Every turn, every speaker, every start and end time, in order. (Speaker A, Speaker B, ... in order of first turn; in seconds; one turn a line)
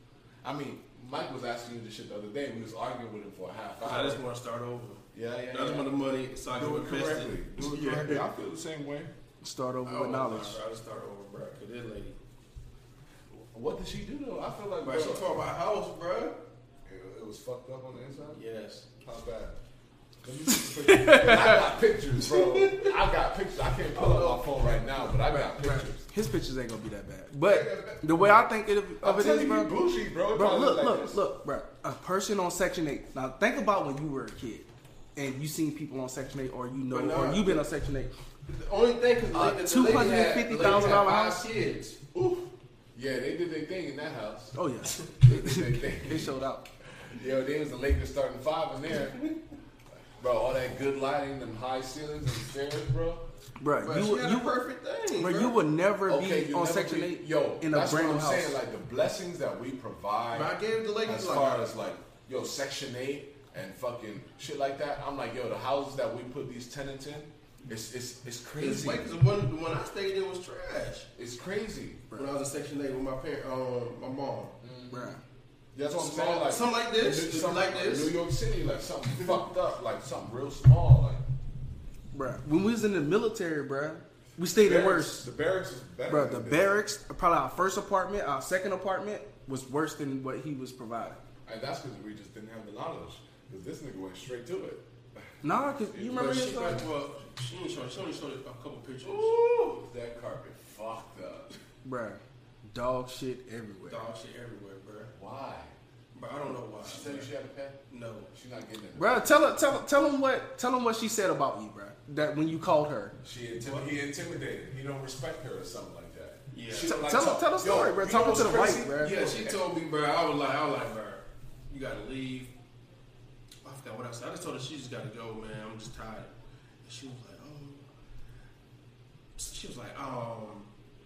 Speaker A: 0.4-4.2
Speaker B: 3.8-8.2
Speaker A: 5.1-5.9
Speaker A: 6.5-9.1
Speaker C: 9.4-10.6
Speaker B: 9.8-12.2
Speaker A: 13.5-15.5
Speaker B: 14.8-16.4
Speaker A: 16.9-18.4
Speaker B: 18.3-18.9
Speaker A: 19.0-19.6
Speaker A: 20.2-26.0
Speaker C: 20.5-21.6
Speaker B: 22.2-22.9
Speaker B: 23.9-25.1
Speaker C: 25.3-29.8
Speaker B: 27.4-28.3
Speaker A: 29.0-31.2
Speaker C: 30.3-38.1
Speaker B: 36.9-37.6
Speaker B: 38.5-42.0
Speaker C: 39.3-41.4
Speaker A: 39.7-41.4
Speaker A: 42.1-44.5
Speaker C: 44.5-46.6
Speaker A: 45.2-46.4
Speaker A: 47.1-49.3
Speaker A: 50.2-53.2
Speaker C: 53.6-54.6
Speaker B: 53.8-55.6
Speaker C: 55.2-58.6
Speaker A: 56.1-69.1
Speaker B: 60.3-61.7
Speaker B: 68.6-71.1
Speaker A: 71.2-72.1
Speaker B: 72.1-74.6
Speaker A: 74.6-75.2
Speaker C: 74.9-75.2
Speaker A: 75.7-81.2
Speaker B: 76.0-78.2
Speaker C: 82.1-85.3
Speaker A: 84.6-86.8
Speaker C: 86.1-91.2
Speaker A: 91.5-95.2
Speaker C: 95.4-96.8
Speaker A: 95.9-96.4
Speaker B: 96.1-99.4
Speaker A: 99.0-101.5
Speaker C: 101.8-102.2
Speaker C: 102.7-104.1
Speaker B: 103.9-105.1
Speaker A: 105.1-105.7
Speaker B: 106.1-107.3
Speaker A: 106.5-107.8
Speaker B: 107.9-108.3
Speaker A: 108.3-109.4
Speaker C: 109.0-113.2
Speaker A: 113.2-119.7
Speaker B: 116.5-117.0
Speaker C: 116.8-119.2
Speaker B: 119.0-122.5
Speaker B: 123.6-126.3
Speaker B: 126.8-127.8
Speaker B: 129.4-130.7